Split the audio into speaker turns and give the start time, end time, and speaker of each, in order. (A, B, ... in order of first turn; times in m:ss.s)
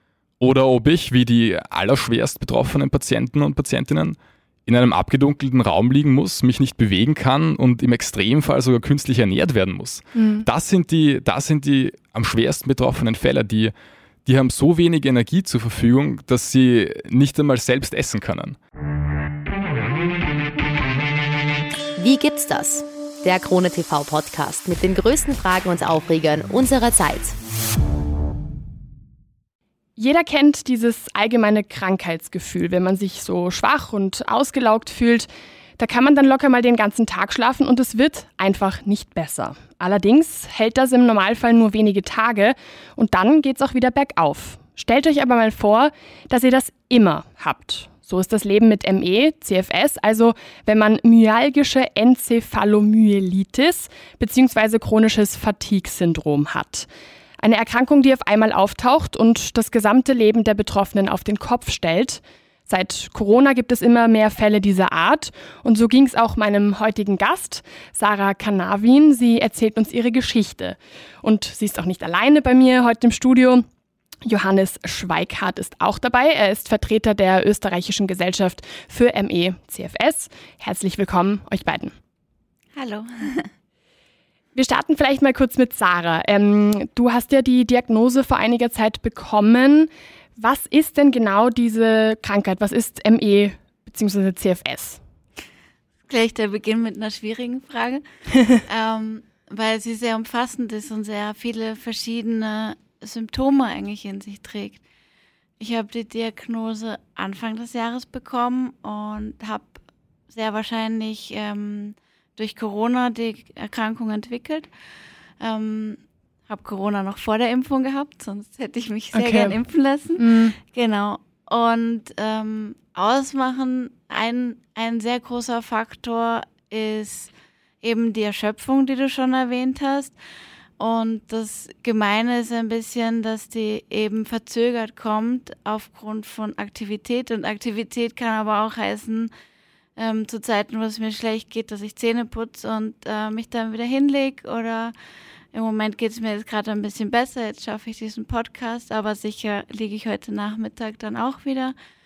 0:00.4-0:13.7 A
0:10.1-0:10.5 B
0:14.2-0:18.6 A
0:22.0-0:27.4 C
0:30.0-0:56.9 B
0:57.4-1:13.7 B
1:14.2-1:22.0 B
1:22.8-1:23.5 D
1:24.6-1:35.0 B
1:36.1-1:38.0 D
1:38.6-1:44.8 D
1:45.6-1:49.8 D
1:50.3-1:54.7 D
1:55.4-2:07.3 D
1:59.1-1:59.6 B
2:00.2-2:00.6 B
2:07.8-2:10.1 D
2:10.8-2:19.3 D
2:20.0-2:24.9 D
2:25.5-2:31.8 D